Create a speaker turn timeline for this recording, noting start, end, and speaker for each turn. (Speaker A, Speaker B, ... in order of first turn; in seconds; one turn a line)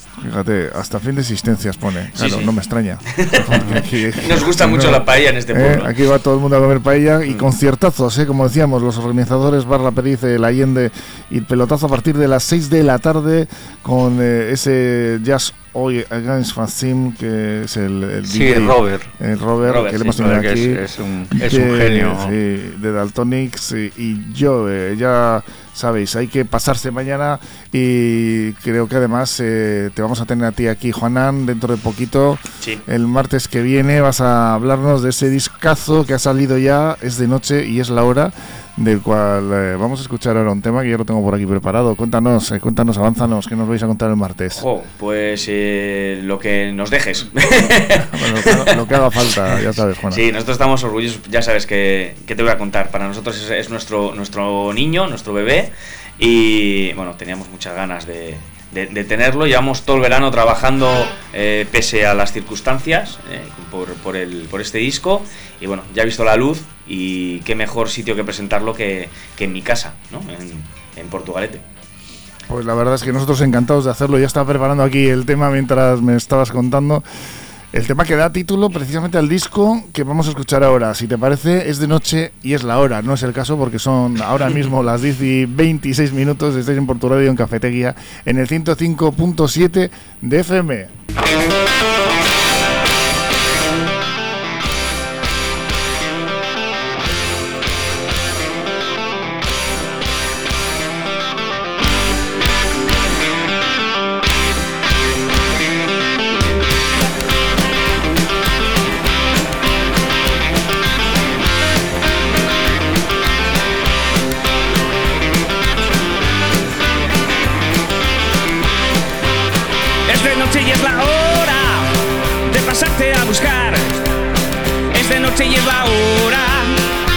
Speaker A: 0.2-20.8
Speaker B: 2.1-2.5
Speaker B: 3.1-5.9
Speaker C: 18.2-19.1
Speaker B: 19.6-20.3
Speaker C: 20.1-22.3
Speaker A: 21.3-44.6
Speaker B: 44.5-71.6
Speaker A: 48.0-50.2
Speaker A: 72.5-77.0
Speaker A: 77.7-90.9
Speaker D: 120.0-121.9
Speaker D: 122.5-124.0
Speaker D: 124.9-126.8